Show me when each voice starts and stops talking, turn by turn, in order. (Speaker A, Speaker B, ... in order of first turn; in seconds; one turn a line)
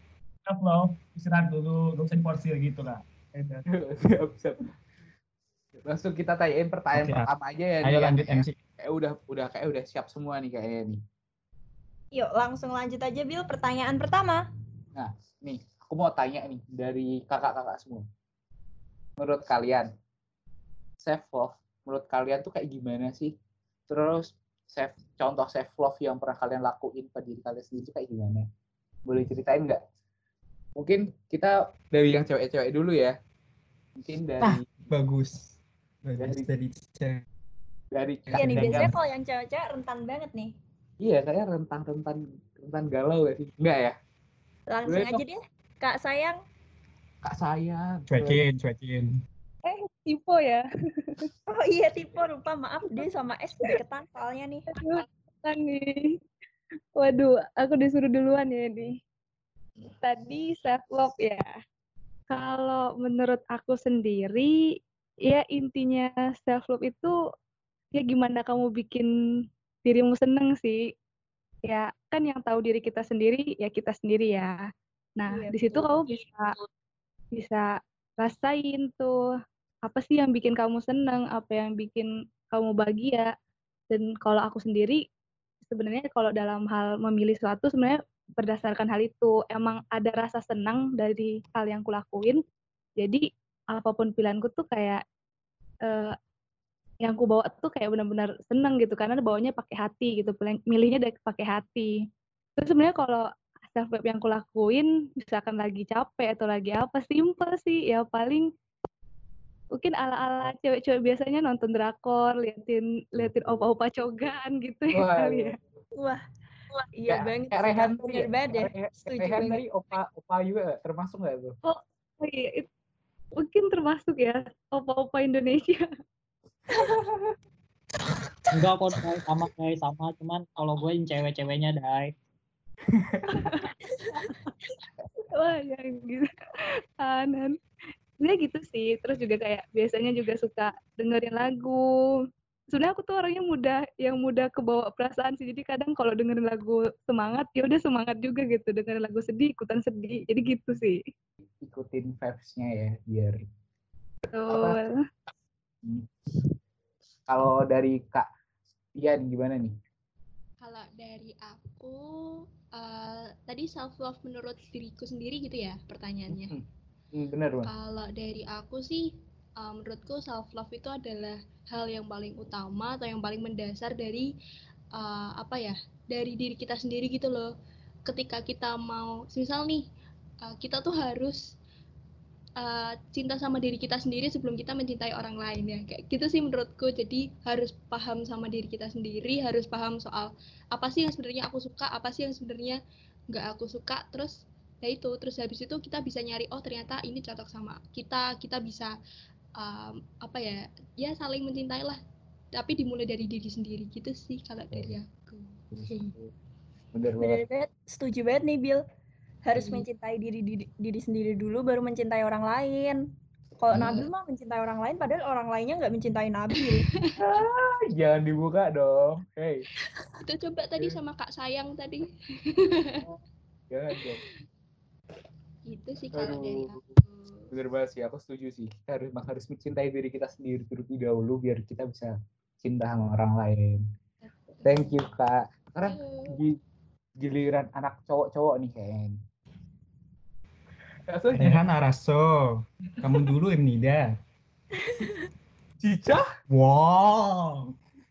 Speaker A: 0.5-3.6
Speaker B: 3.7-4.7
Speaker B: 5.8-11.0
Speaker C: 6.9-7.3
Speaker C: 7.8-8.6
Speaker D: 12.1-14.4
Speaker B: 14.9-18.1
Speaker B: 19.2-19.9
Speaker B: 21.0-23.3
Speaker B: 23.9-28.5
Speaker B: 29.1-29.8
Speaker B: 30.8-33.1
Speaker B: 34.0-34.6
Speaker C: 34.4-37.2
Speaker B: 36.2-36.5
Speaker B: 37.9-39.0
Speaker C: 38.3-38.9
Speaker D: 38.3-40.5
Speaker B: 41.0-43.9
Speaker D: 44.7-46.4
Speaker B: 44.9-45.2
Speaker B: 47.2-48.4
Speaker C: 48.1-49.1
Speaker E: 49.6-51.3
Speaker D: 51.5-54.7
Speaker E: 54.7-56.2
Speaker E: 57.0-58.9
Speaker E: 60.0-61.5
Speaker E: 62.3-64.6
Speaker E: 65.3-67.1
Speaker E: 67.9-69.1
Speaker E: 69.8-70.8
Speaker E: 71.7-74.5
Speaker E: 75.2-76.5
Speaker D: 75.3-76.2
Speaker E: 77.3-79.2
Speaker E: 79.9-83.3
Speaker E: 83.9-85.0
Speaker E: 85.6-92.4
Speaker E: 93.0-95.0
Speaker E: 95.8-96.2
Speaker E: 97.0-101.9
Speaker E: 102.6-108.5
Speaker E: 109.8-115.6
Speaker B: 114.9-115.6
Speaker D: 116.0-116.2
Speaker D: 116.9-119.6
Speaker B: 117.1-121.5
Speaker E: 121.6-122.7
Speaker E: 123.4-125.9
Speaker F: 128.5-132.1
Speaker B: 132.9-133.5
Speaker E: 133.3-134.5
Speaker E: 135.3-136.3
Speaker E: 137.0-137.6
Speaker E: 138.2-141.8
Speaker E: 142.7-151.0
Speaker B: 151.6-153.4
Speaker E: 154.3-154.9
Speaker B: 154.5-154.8
Speaker B: 155.8-156.5
Speaker B: 157.3-158.3
Speaker B: 158.9-159.7
Speaker G: 160.6-166.5
Speaker B: 166.3-167.7
Speaker G: 167.7-174.3
Speaker G: 174.9-177.5
Speaker G: 178.1-179.9
Speaker G: 180.4-181.4
Speaker G: 182.6-192.8
Speaker G: 193.3-198.9
Speaker G: 199.6-202.0
Speaker G: 202.5-206.1
Speaker B: 205.7-206.3
Speaker B: 206.9-207.4
Speaker D: 207.2-208.8
Speaker D: 209.4-213.0
Speaker G: 209.5-209.8
Speaker D: 213.6-216.9
Speaker B: 213.7-214.0
Speaker G: 213.7-214.1
Speaker B: 217.2-219.6
Speaker G: 220.2-223.0
Speaker B: 223.7-224.2
Speaker G: 225.7-227.5
Speaker B: 226.1-226.8
Speaker B: 227.5-233.8
Speaker G: 234.4-234.9
Speaker B: 234.6-236.6
Speaker G: 235.8-236.4
Speaker B: 237.2-239.2
Speaker B: 241.1-241.6
Speaker C: 241.3-244.1
Speaker D: 244.8-245.2
Speaker B: 245.8-246.2
Speaker C: 246.5-247.7